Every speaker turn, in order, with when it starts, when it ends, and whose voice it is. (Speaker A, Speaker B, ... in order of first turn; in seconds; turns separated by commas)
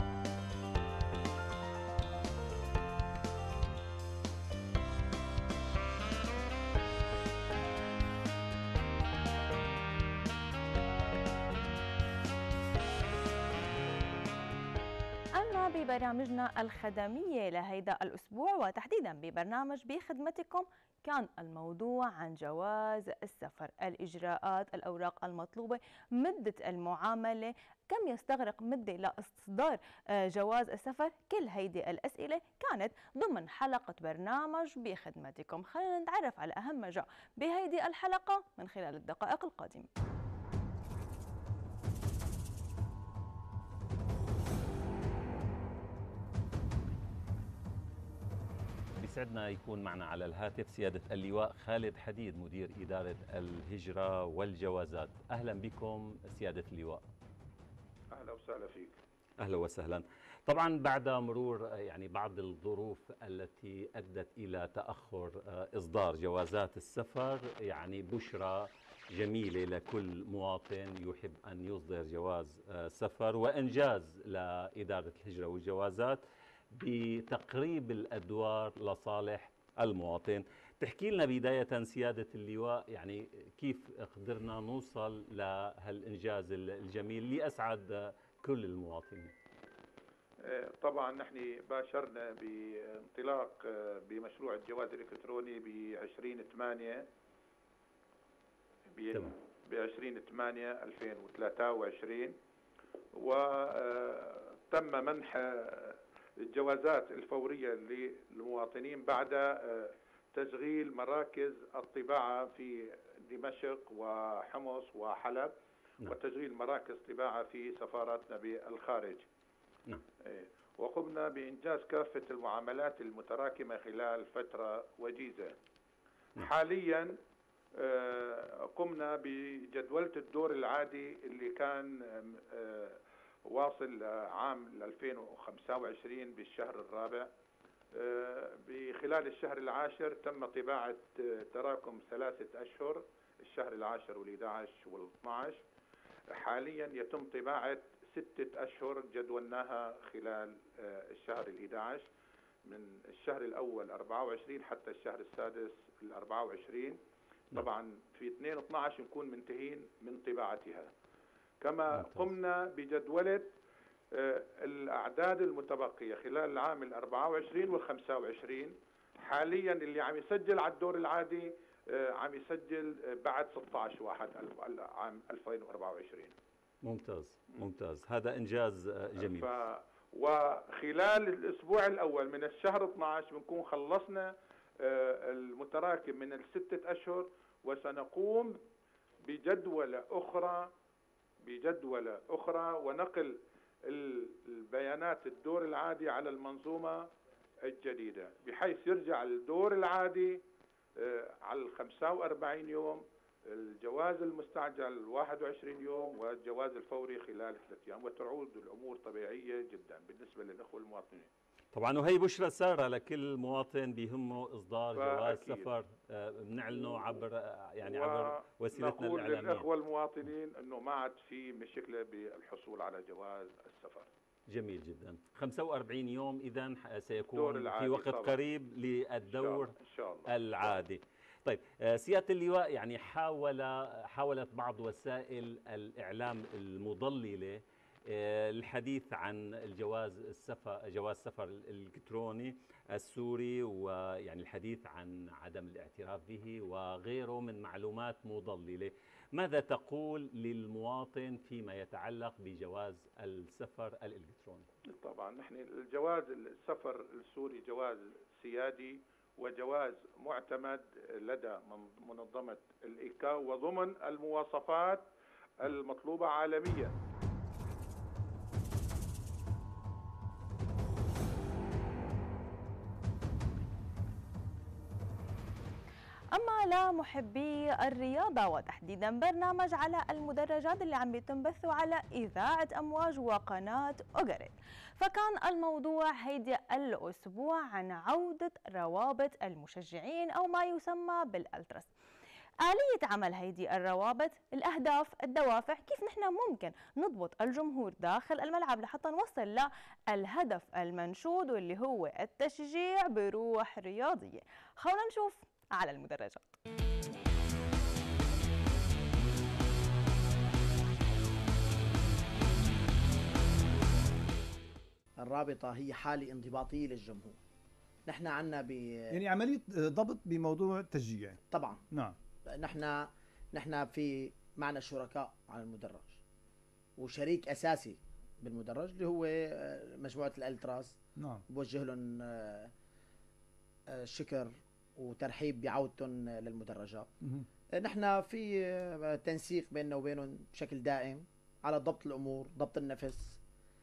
Speaker A: 15.4-39.9, Speaker B: 49.0-57.0, Speaker C: 58.1-59.0, Speaker B: 59.4-89.3, Speaker C: 90.4-97.1, Speaker C: 99.0-102.3, Speaker C: 103.2-119.3, Speaker C: 120.2-125.5, Speaker C: 126.4-127.2, Speaker C: 127.8-137.3, Speaker C: 137.9-145.6, Speaker C: 146.4-152.1, Speaker C: 152.7-157.0, Speaker C: 157.5-160.9, Speaker C: 161.6-163.5, Speaker B: 161.9-162.3, Speaker C: 164.2-176.3, Speaker B: 176.8-179.5, Speaker C: 179.2-188.6, Speaker C: 189.3-190.7, Speaker C: 191.4-197.1, Speaker C: 197.7-200.4, Speaker C: 201.0-211.3, Speaker B: 211.7-219.7, Speaker C: 214.9-215.7, Speaker C: 216.8-217.1, Speaker C: 217.8-224.1, Speaker B: 224.5-229.8, Speaker C: 227.3-228.4, Speaker C: 229.3-230.8, Speaker B: 230.3-254.7, Speaker C: 254.9-265.1, Speaker C: 265.6-266.9, Speaker A: 276.4-291.9, Speaker A: 292.6-306.5, Speaker D: 315.2-317.4, Speaker D: 318.1-319.2, Speaker E: 319.1-321.4, Speaker D: 321.5-321.8, Speaker D: 322.6-326.2, Speaker D: 327.0-331.0, Speaker E: 331.2-331.4, Speaker D: 331.5-332.7, Speaker D: 333.9-337.1, Speaker D: 337.8-343.4